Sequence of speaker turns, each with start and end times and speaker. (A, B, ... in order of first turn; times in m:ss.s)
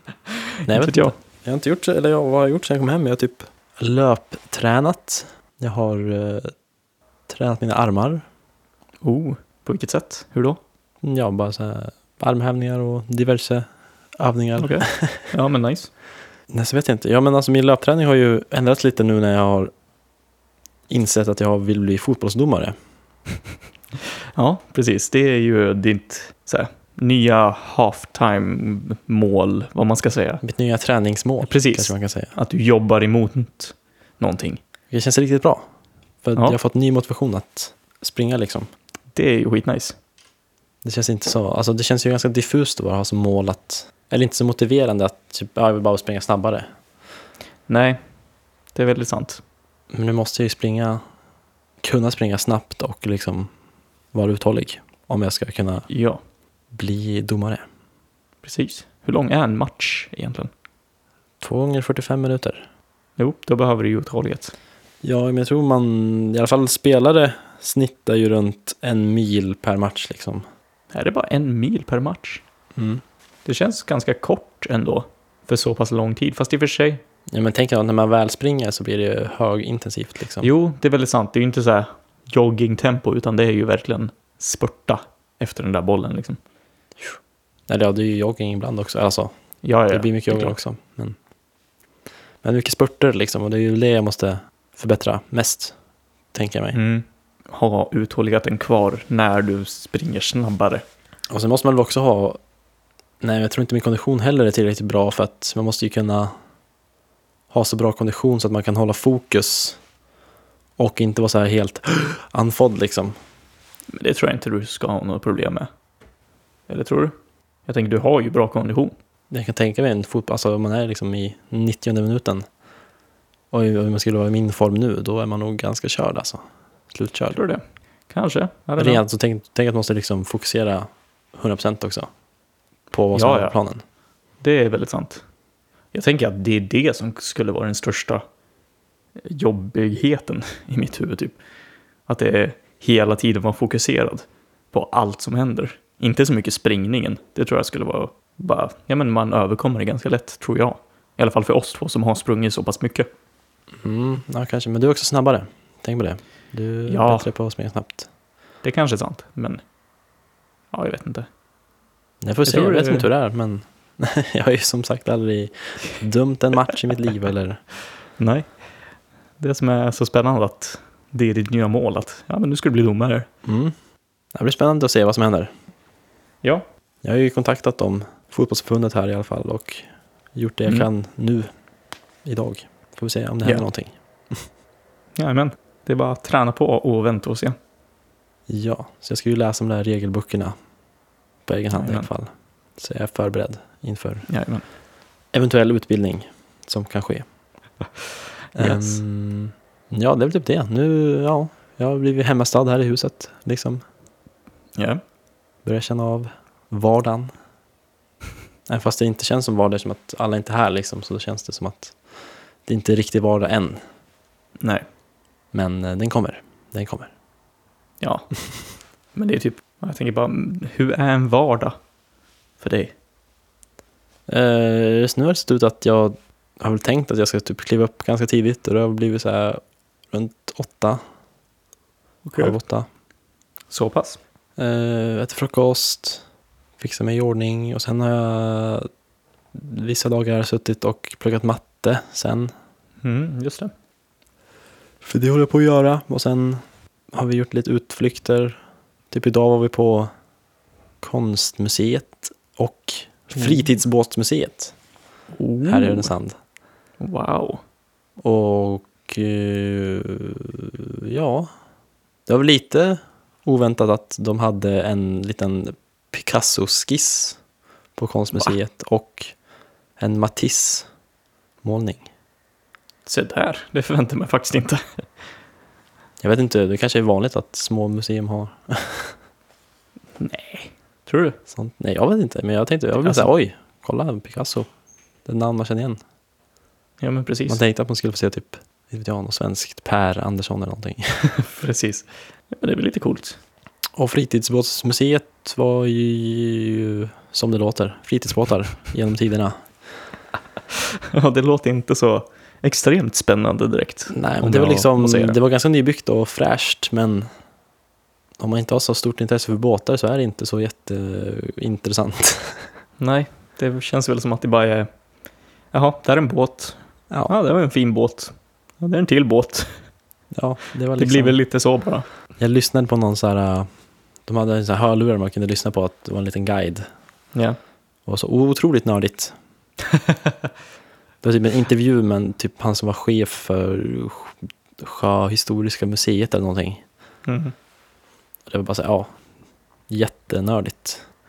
0:00.3-0:01.1 A
0:00.7-0:06.5 B
0:07.3-0:08.2 B
0:09.0-0:10.6 A
0:11.0-0:15.3 B
0:14.6-0:15.9 A
0:16.5-0:19.7 B
0:20.9-0:22.7 B
0:24.3-0:30.4 A
0:30.4-0:32.4 B
0:31.4-0:34.6 A
0:34.9-0:35.6 B
0:36.2-0:38.7 B
0:39.1-0:40.0 A
0:40.8-0:46.7 B
0:47.7-0:48.0 A
0:48.8-0:49.4 A
0:49.9-0:51.0 B
0:51.8-0:53.5 B
0:54.1-0:55.9 B
0:55.9-0:56.2 A
0:56.7-0:57.6 B
0:58.4-1:00.5 A
1:01.4-1:02.6 B
1:03.2-1:04.5 A
1:05.0-1:10.4 B
1:10.9-1:12.4 A
1:12.8-1:13.0 B
1:13.4-1:17.0 A
1:17.3-1:20.5 B
1:20.4-1:26.4 A
1:27.7-1:29.3 B
1:29.6-1:30.6 A
1:29.9-1:31.2 B
1:32.4-1:35.8 B
1:36.3-1:36.8 B
1:36.7-1:40.8 A
1:41.3-1:42.4 B
1:43.2-1:46.3 B
1:47.5-1:49.8 B
1:50.8-1:53.2 B
1:53.9-1:55.7 A
1:56.7-1:57.1 A
1:57.7-1:59.0 A
1:59.3-2:02.4 B
2:03.5-2:07.4 B
2:07.3-2:09.0 A
2:08.8-2:12.1 B
2:12.9-2:13.8 B
2:13.2-2:13.6 A
2:14.4-2:15.2 A
2:15.9-2:18.2 A
2:19.2-2:21.4 A
2:22.1-2:33.1 A
2:33.8-2:38.1 B
2:36.9-2:37.3 A
2:38.6-2:39.6 A
2:40.7-2:41.3 A
2:42.2-2:47.6 B
2:42.4-2:43.1 A
2:48.2-2:48.5 A
2:49.4-2:53.3 A
2:53.4-2:53.7 B
2:54.4-2:55.5 B
2:57.0-3:01.5 B
3:02.2-3:04.4 B
3:05.2-3:07.6 A
3:08.5-3:10.6 B
3:11.5-3:14.3 B
3:11.7-3:12.1 A
3:14.3-3:14.6 A
3:15.3-3:17.2 B
3:18.6-3:19.0 A
3:18.6-3:23.8 B
3:24.8-3:25.0 A
3:25.6-3:27.3 B
3:28.7-3:32.0 B
3:32.7-3:33.8 B
3:35.5-3:37.1 B
3:38.0-3:38.3 A
3:39.2-3:41.8 A
3:42.6-3:42.9 A
3:44.3-3:51.0 B
3:52.2-3:52.6 A
3:52.4-3:52.9 B
3:53.7-3:54.2 A
3:54.6-3:56.2 B
3:56.8-3:58.9 B
3:59.5-4:02.5 B
4:03.0-4:03.7 A
4:05.0-4:06.6 B
4:07.1-4:08.6 B
4:09.1-4:10.1 B
4:11.0-4:14.7 B
4:13.4-4:13.6 A
4:15.4-4:16.1 A
4:15.6-4:16.3 B
4:17.0-4:17.6 A
4:18.2-4:21.5 B
4:22.3-4:27.4 B
4:28.0-4:29.3 B
4:30.0-4:30.9 B
4:31.6-4:32.1 B
4:33.1-4:34.8 A
4:36.2-4:39.2 B
4:40.2-4:41.4 A
4:41.5-4:44.7 B
4:43.0-4:43.3 A
4:45.2-4:46.0 B
4:47.0-4:47.6 A
4:47.5-4:51.3 B
4:51.2-4:53.4 A
4:54.0-4:59.6 B
5:00.7-5:05.4 A
5:04.1-5:07.3 B
5:08.4-5:12.6 B
5:13.0-5:14.9 A
5:15.7-5:19.7 A
5:20.3-5:21.4 B
5:21.0-5:22.1 A
5:22.4-5:23.7 B
5:24.3-5:26.8 B
5:28.1-5:29.4 B
5:29.9-5:30.5 A
5:31.2-5:36.8 B
5:37.3-5:37.5 A
5:38.5-5:39.1 B
5:39.9-5:41.0 B